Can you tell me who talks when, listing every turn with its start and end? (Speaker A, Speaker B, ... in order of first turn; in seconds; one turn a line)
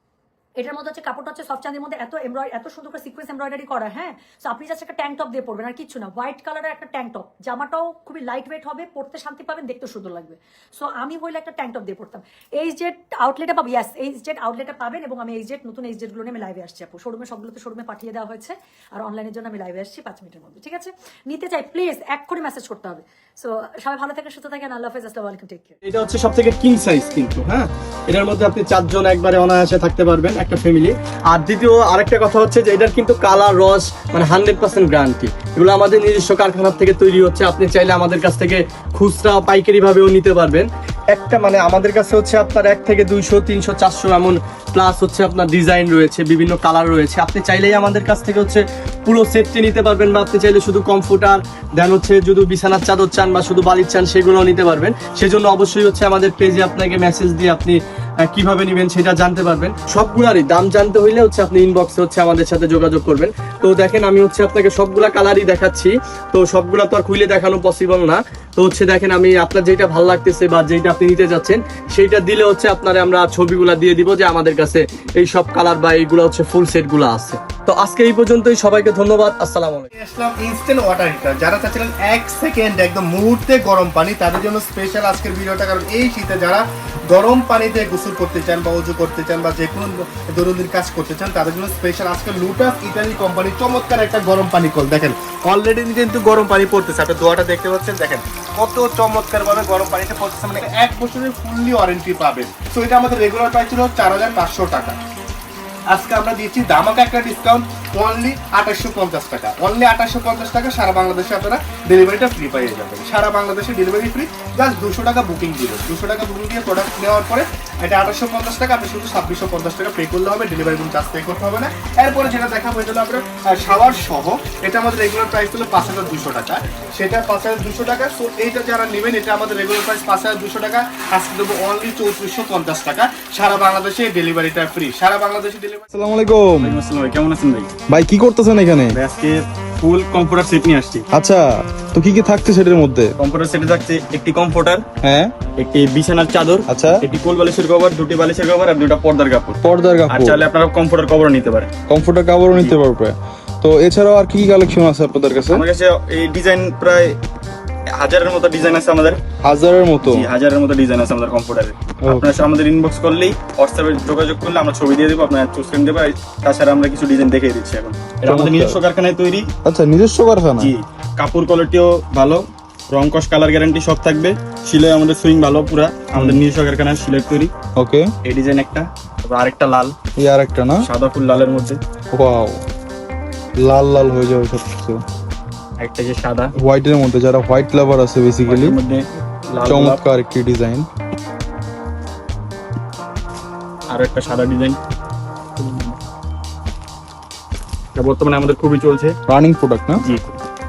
Speaker A: 0.6-25.8
Speaker B: 25.8-79.9
Speaker C: 79.9-105.0
Speaker C: 105.9-135.9
Speaker D: 135.9-136.8
Speaker E: 136.6-137.7
Speaker D: 137.9-139.0
Speaker E: 138.9-141.1
Speaker D: 141.1-143.1
Speaker E: 143.2-144.9
Speaker D: 145.0-145.3
Speaker E: 145.6-151.7
Speaker D: 146.7-147.0
Speaker D: 149.6-150.4
Speaker D: 151.9-155.7
Speaker E: 155.5-157.2
Speaker E: 157.9-159.2
Speaker D: 159.4-160.3
Speaker E: 160.0-169.5
Speaker D: 162.0-162.4
Speaker D: 168.2-168.8
Speaker D: 169.7-170.7
Speaker E: 170.6-177.5
Speaker D: 176.2-176.4
Speaker D: 177.8-178.1
Speaker E: 178.2-180.0
Speaker D: 180.2-180.9
Speaker E: 180.8-181.8
Speaker D: 182.1-182.6
Speaker D: 183.6-185.0
Speaker E: 185.8-186.5
Speaker D: 186.6-188.8
Speaker E: 188.5-190.0
Speaker D: 189.6-190.9
Speaker E: 193.9-194.8
Speaker E: 195.6-195.9
Speaker E: 197.9-199.2
Speaker D: 199.3-200.1